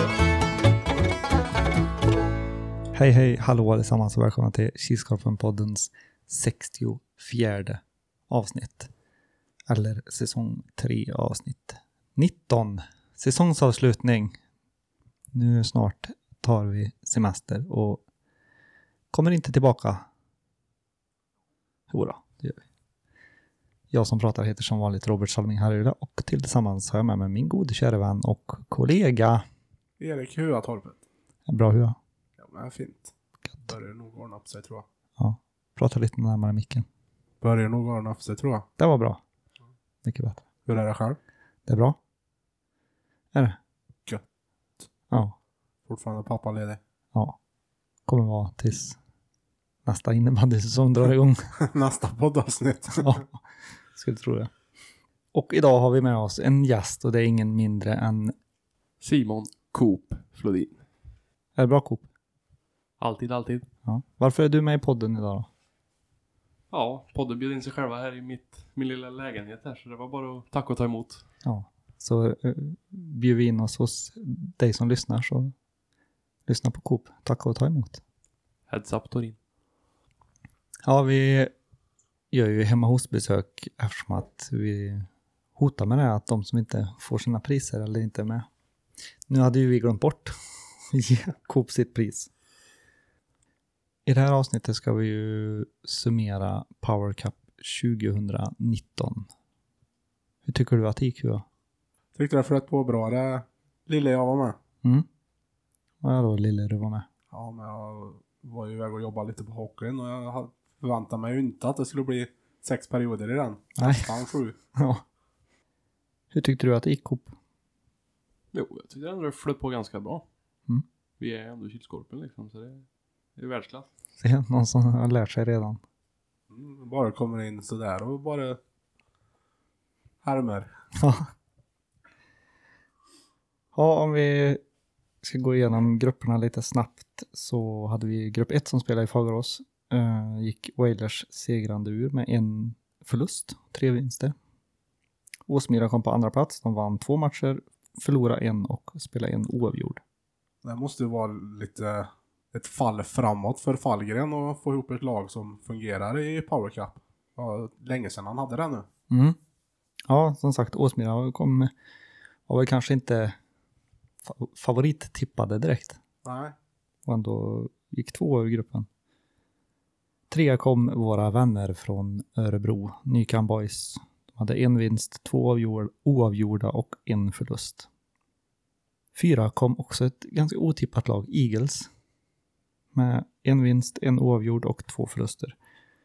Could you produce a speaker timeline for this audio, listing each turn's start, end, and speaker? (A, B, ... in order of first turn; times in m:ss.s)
0:02.9-0:08.9 A
0:09.7-0:14.4 A
0:15.3-0:18.0 A
0:19.1-0:20.0 A
0:21.9-0:22.6 A
0:23.9-0:29.4 A
0:30.0-0:31.0 B
0:31.5-0:32.0 A
0:32.4-0:34.8 B
0:35.2-0:36.8 A
0:37.4-0:38.7 B
0:38.8-0:39.2 A
0:40.0-0:40.4 A
0:40.7-0:41.2 B
0:41.7-0:42.0 A
0:43.3-0:43.6 A
0:45.1-0:45.4 A
0:45.9-0:46.8 B
0:48.0-0:49.0 A
0:49.8-0:51.5 A
0:51.6-0:53.2 B
0:53.0-0:53.4 A
0:53.9-0:54.5 A
0:55.3-0:58.3 A
0:59.0-1:00.8 C
1:01.6-1:02.1 A
1:03.0-1:03.7 C
1:03.8-1:05.5 A
1:06.7-1:11.2 C
1:11.4-1:15.5 A
1:16.5-1:18.0 A
1:18.7-1:19.4 C
1:20.8-1:21.5 A
1:22.3-1:28.5 A
1:29.3-1:30.3 A
1:30.9-1:32.3 A
1:34.0-1:39.3 A
1:40.4-1:41.4 A
1:42.1-1:44.6 B
1:46.0-1:47.1 A
1:47.3-1:54.6 B
1:53.8-1:54.2 A
1:54.7-1:55.0 A
1:56.3-1:57.3 A
1:58.5-2:00.2 C
2:01.2-2:03.9 C
2:04.2-2:05.8 A
2:06.5-2:08.6 B
2:10.2-2:10.7 B
2:11.0-2:11.3 A
2:13.7-2:14.6 A
2:15.2-2:24.3 A
2:25.5-2:30.0 A
2:30.6-2:38.9 B
2:39.1-2:39.4 A
2:40.1-2:41.7 A
2:42.5-2:43.4 A
2:44.2-2:46.0 A
2:46.2-2:46.5 B
2:47.0-2:48.9 A
2:50.3-2:57.9 A
2:59.1-3:01.9 A
3:02.9-3:05.5 A